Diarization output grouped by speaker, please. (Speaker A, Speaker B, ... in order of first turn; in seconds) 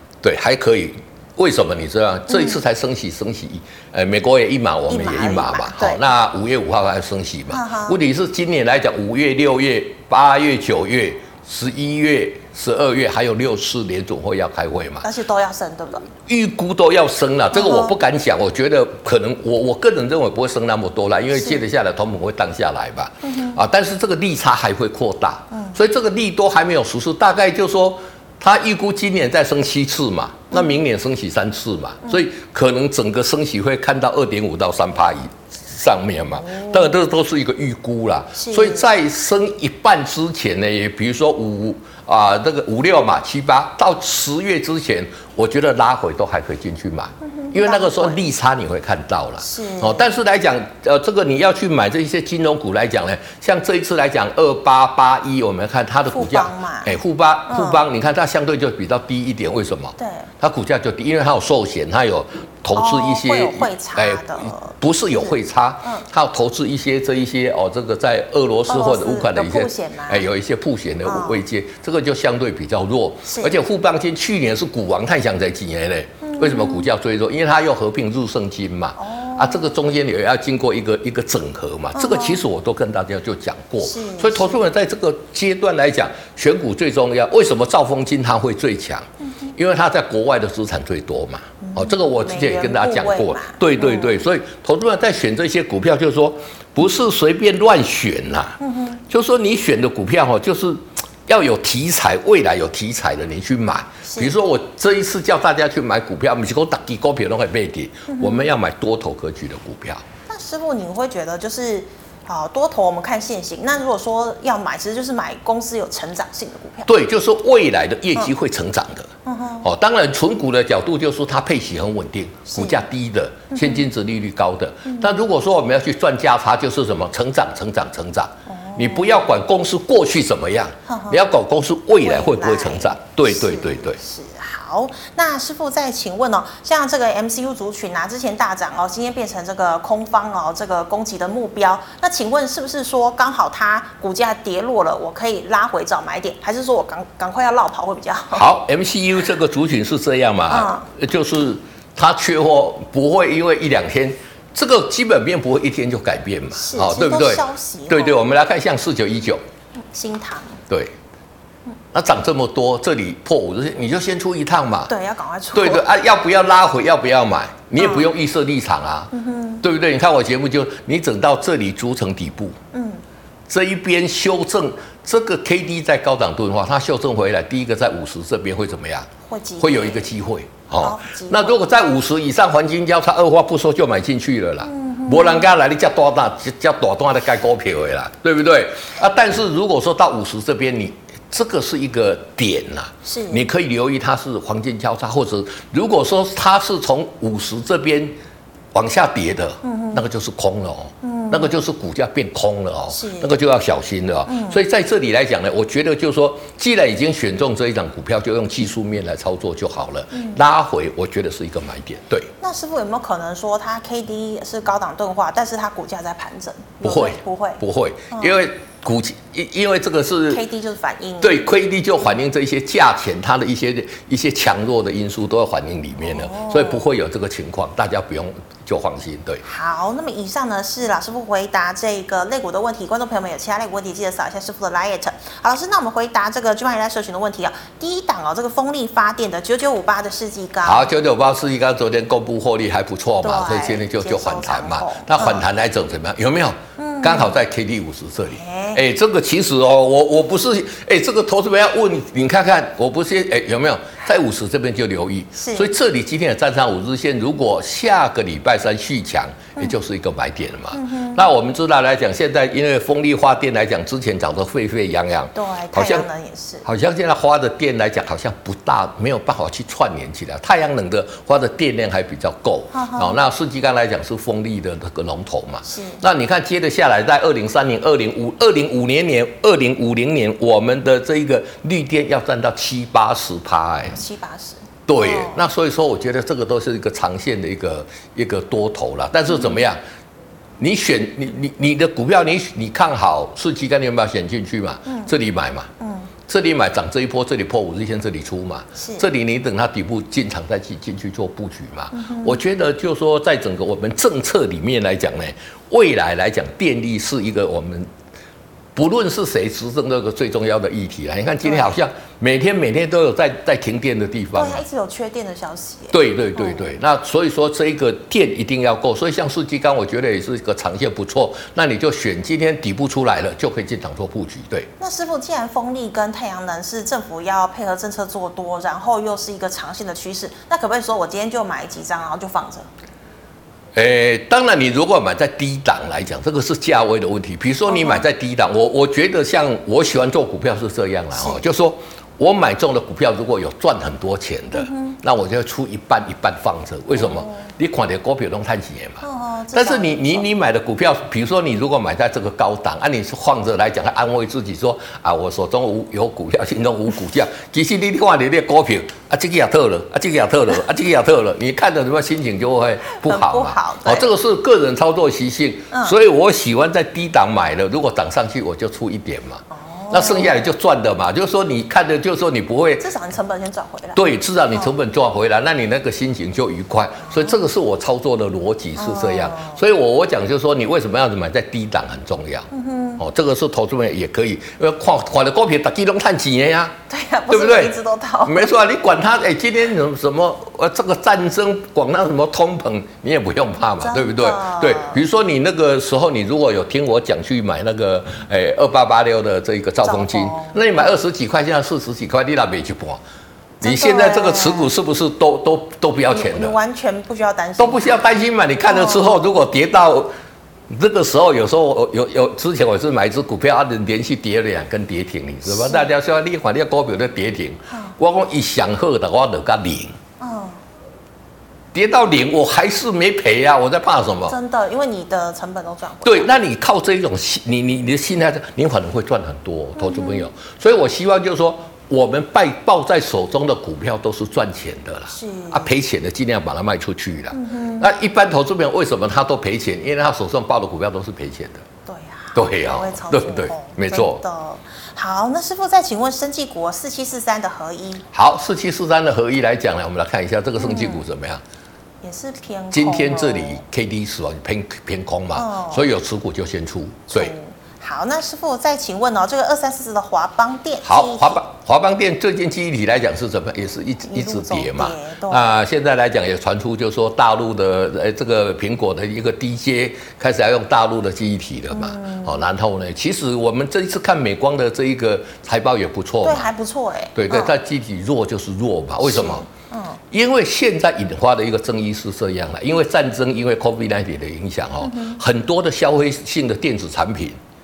Speaker A: 0.2-15.1, 16.2-110.0, 116.9-119.1, 119.6-134.0, 148.3-159.4, 160.7-160.9, 161.9-164.9, 165.5-172.6, 173.5-198.1, 198.7-212.3, 216.8-220.4, 221.2-229.4, 240.6-266.1, 266.6-284.0, 284.9-289.8, 290.6-295.7, 296.3-307.9, 308.7-314.6, 315.9-324.7, 333.8-372.9, 373.9-386.7, 387.3-403.0, 403.6-406.6, 407.6-410.1, 410.7-420.0, 421.7-424.3, 426.0-441.6, 442.3-444.2, 448.1-451.4, 452.7-457.3, 460.8-476.5, 477.1-479.4, 480.1-487.4
Speaker B: 2.3-2.6, 4.9-6.1, 7.5-8.0, 15.0-16.1, 17.5-17.9, 21.3-21.6, 23.2-23.6, 25.5-25.8, 30.5-30.8, 36.4-36.9, 38.4-38.9, 47.2-48.2, 49.4-50.1, 56.1-57.0, 57.5-57.8, 60.0-60.3, 62.7-66.1, 68.7-70.3, 71.0-71.4, 73.2-73.6, 76.2-76.9, 79.0-79.7, 81.9-82.4, 83.8-84.6, 91.6-94.2, 98.6-99.0, 104.0-104.3, 108.1-108.4, 110.3-116.9, 119.2-119.7, 122.5-122.8, 123.5-123.8, 124.8-125.2, 128.5-129.2, 130.9-131.2, 132.0-148.5, 150.5-150.9, 156.5-158.2, 159.8-160.6, 164.9-165.9, 167.8-168.1, 169.1-169.6, 172.7-173.0, 179.2-180.1, 180.8-181.6, 184.6-185.5, 193.0-193.4, 199.6-200.0, 201.0-201.6, 202.9-203.3, 204.3-204.6, 210.1-210.4, 212.4-218.4, 220.3-221.5, 226.0-226.8, 229.4-240.9, 243.2-245.4, 246.8-247.4, 248.3-248.8, 255.3-255.7, 260.7-261.3, 265.3-266.6, 272.7-273.2, 275.6-276.0, 283.9-285.4, 289.3-289.6, 294.9-295.1, 295.8-296.1, 298.8-299.1, 301.9-302.4, 311.4-311.7, 314.3-316.6, 324.8-332.7, 337.7-338.0, 341.1-341.4, 344.5-345.0, 347.0-347.5, 349.0-350.2, 362.9-364.1, 369.5-370.4, 372.8-374.0, 378.8-379.6, 382.5-383.0, 386.9-388.6, 393.8-395.0, 399.8-400.6, 403.6-404.7, 406.1-408.1, 408.7-409.4, 415.5-415.9, 417.7-417.9, 420.2-420.6, 424.3-426.3, 429.8-430.3, 435.1-435.7, 437.3-437.9, 441.9-448.1, 450.6-451.0, 452.0-453.6, 455.3-455.9, 457.1-461.4, 464.0-465.6, 471.7-472.4, 476.2-477.5, 479.0-480.0, 484.8-485.2